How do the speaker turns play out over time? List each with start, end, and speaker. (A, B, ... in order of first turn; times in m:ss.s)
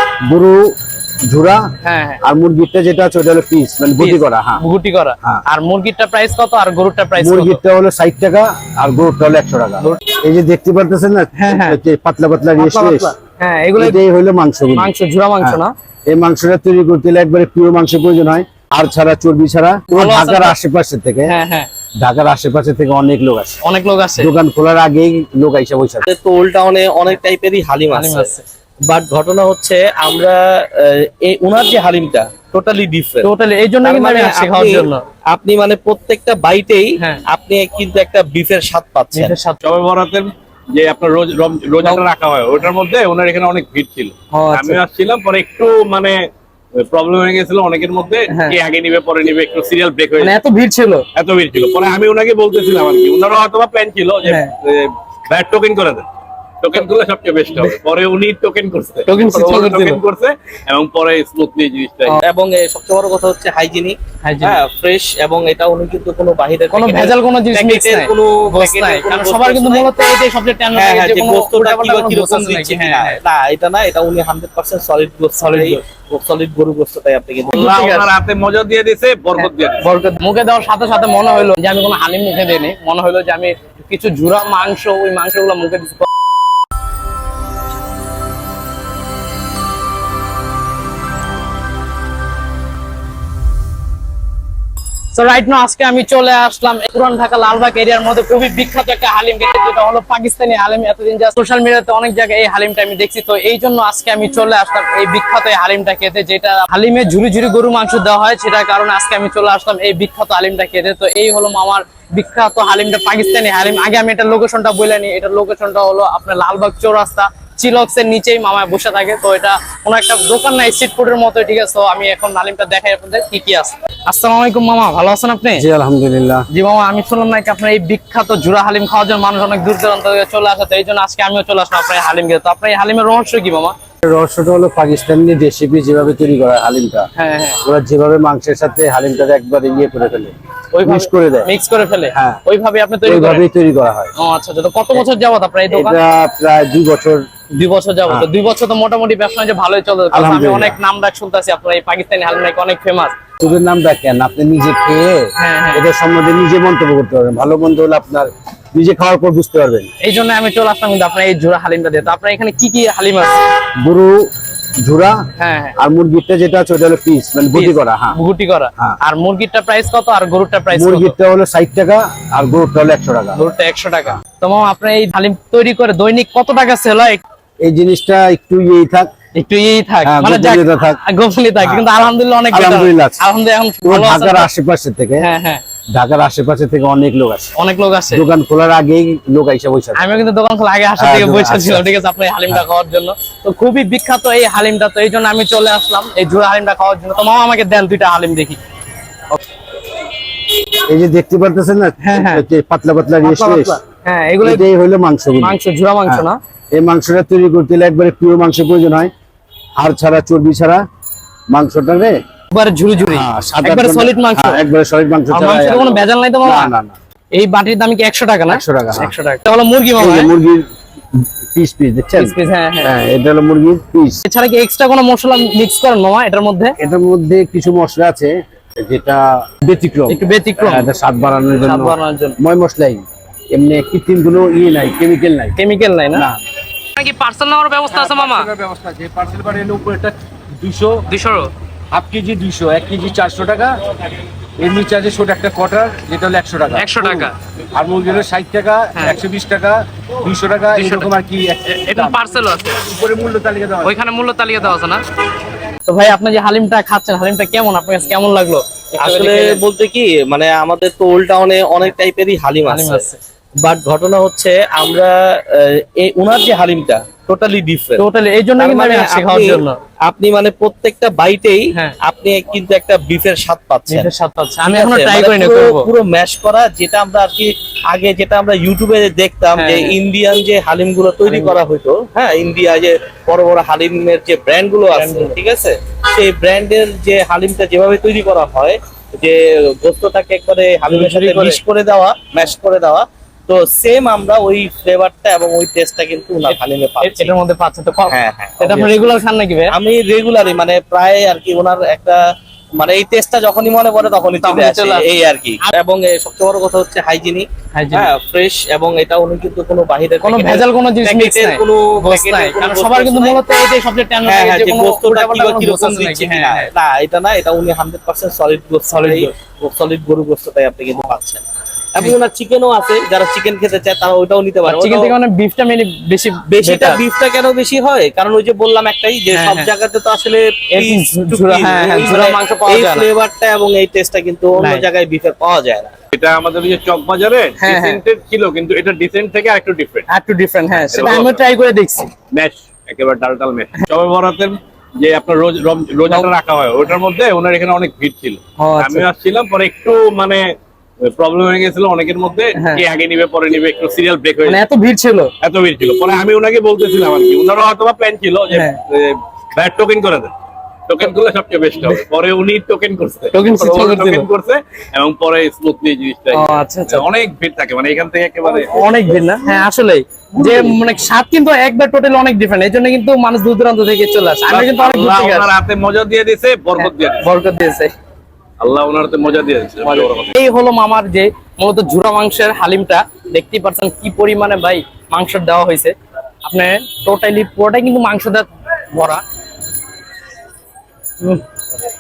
0:00.2-0:00.7 A
0:01.3-0:01.7 A
0:01.8-0:02.2 B
0:02.2-0:04.6 A
0:04.0-0:07.6 B
0:07.2-0:13.1 A
0:11.4-0:11.8 B
0:12.6-0:14.0 B
0:13.8-0:21.3 A
0:14.8-0:15.7 B
0:19.9-0:20.6 B
0:21.3-0:21.7 B
0:22.0-0:23.6 A
0:23.6-0:24.3 B
0:24.2-0:26.1 A
0:26.1-0:28.3 C
0:27.9-0:28.4 B
0:28.9-0:33.3 C
0:33.2-0:35.0 B
0:33.8-0:39.3 C
0:39.1-0:39.6 B
0:39.6-0:46.2 D
0:44.3-0:44.8 B
0:46.8-0:50.3 D
0:48.3-0:48.6 B
0:50.2-0:51.0 B
0:51.2-0:56.0 D
0:54.2-0:54.5 B
0:56.6-1:02.2 D
0:59.1-1:00.0 B
1:02.2-1:09.9 C
1:04.2-1:04.6 B
1:06.7-1:13.2 B
1:10.8-1:17.7 C
1:15.4-1:15.8 B
1:17.5-1:18.1 B
1:17.5-1:19.8 D
1:19.4-1:26.1 B
1:35.1-2:05.6 B
2:05.6-2:06.5 A
2:06.5-2:13.8 B
2:14.0-2:17.1 A
2:17.2-2:17.6 B
2:17.6-2:20.3 A
2:20.7-2:23.4 B
2:20.8-2:21.5 A
2:22.1-2:22.4 A
2:23.0-2:24.1 A
2:24.2-2:26.0 B
2:25.7-2:27.2 A
2:27.5-2:33.2 B
2:30.1-2:30.8 A
2:33.4-2:39.9 A
2:35.4-2:35.8 B
2:40.0-2:43.4 B
2:43.8-2:44.3 A
2:44.8-2:45.2 A
2:45.4-2:45.8 B
2:45.8-2:48.2 A
2:47.5-2:51.2 B
2:50.7-2:53.4 A
2:53.4-2:57.2 B
2:57.6-2:59.1 A
2:59.3-3:04.5 B
3:00.0-3:01.0 A
3:01.6-3:02.0 A
3:02.5-3:03.2 A
3:03.8-3:05.3 A
3:05.2-3:05.6 B
3:05.9-3:07.5 A
3:07.6-3:08.2 B
3:08.1-3:10.2 A
3:10.0-3:18.6 B
3:11.0-3:11.9 A
3:20.9-3:23.8 A
3:22.0-3:22.4 B
3:23.2-3:24.7 B
3:24.4-3:29.1 A
3:25.4-3:26.4 B
3:29.8-3:30.8 A
3:31.5-3:32.2 A
3:32.5-3:34.6 B
3:33.1-3:37.0 A
3:35.3-3:36.7 B
3:37.3-3:40.3 B
3:38.5-3:39.1 A
3:40.0-3:44.2 A
3:42.2-3:42.9 B
3:44.2-3:46.8 B
3:46.8-3:55.6 A
3:50.1-3:50.9 B
3:51.6-3:52.4 B
3:55.6-3:56.3 B
3:57.0-3:58.5 B
3:58.0-4:00.1 E
3:58.3-4:00.1 A
4:00.6-4:00.9 A
4:00.6-4:01.0 E
4:01.1-4:01.5 B
4:01.9-4:03.7 E
4:02.0-4:03.7 A
4:04.6-4:07.2 E
4:04.7-4:07.3 A
4:06.7-4:07.3 B
4:07.8-4:12.2 E
4:07.8-4:09.7 A
4:10.3-4:12.1 A
4:10.8-4:11.1 B
4:11.7-4:13.0 B
4:13.0-4:13.8 E
4:13.1-4:13.7 A
4:13.8-4:15.0 B
4:15.8-4:19.6 B
4:19.0-4:23.1 C
4:22.7-4:23.2 B
4:23.6-4:28.0 C
4:28.0-4:29.8 B
4:28.6-4:34.1 C
4:33.9-4:35.9 B
4:34.6-4:57.3 C
4:39.5-4:40.0 B
4:41.3-4:41.6 B
4:44.9-4:45.4 B
4:50.9-4:51.6 B
4:56.5-4:59.7 B
4:58.1-4:59.2 C
4:59.7-5:02.2 C
5:02.8-5:13.4 C
5:04.4-5:05.8 B
5:07.7-5:08.1 B
5:10.2-5:16.7 B
5:14.2-5:21.4 C
5:18.9-5:19.3 B
5:22.0-5:25.2 C
5:24.7-5:27.0 B
5:26.5-5:36.0 C
5:29.3-5:29.7 B
5:30.7-5:33.1 B
5:34.6-5:34.9 B
5:36.1-5:40.1 D
5:37.6-5:38.0 B
5:40.1-5:42.1 B
5:40.7-5:41.4 D
5:42.3-5:50.5 D
5:48.6-5:49.1 B
5:51.0-5:54.6 D
5:52.6-5:52.8 B
5:54.4-5:55.3 B
5:55.4-6:00.3 D
5:58.5-5:58.8 B
6:00.9-6:09.2 D
6:03.3-6:04.3 B
6:06.3-6:07.1 B
6:08.6-6:15.5 B
6:10.4-6:10.8 D
6:14.5-6:17.3 D
6:16.8-6:17.9 B
6:18.6-6:20.4 D
6:19.8-6:29.2 B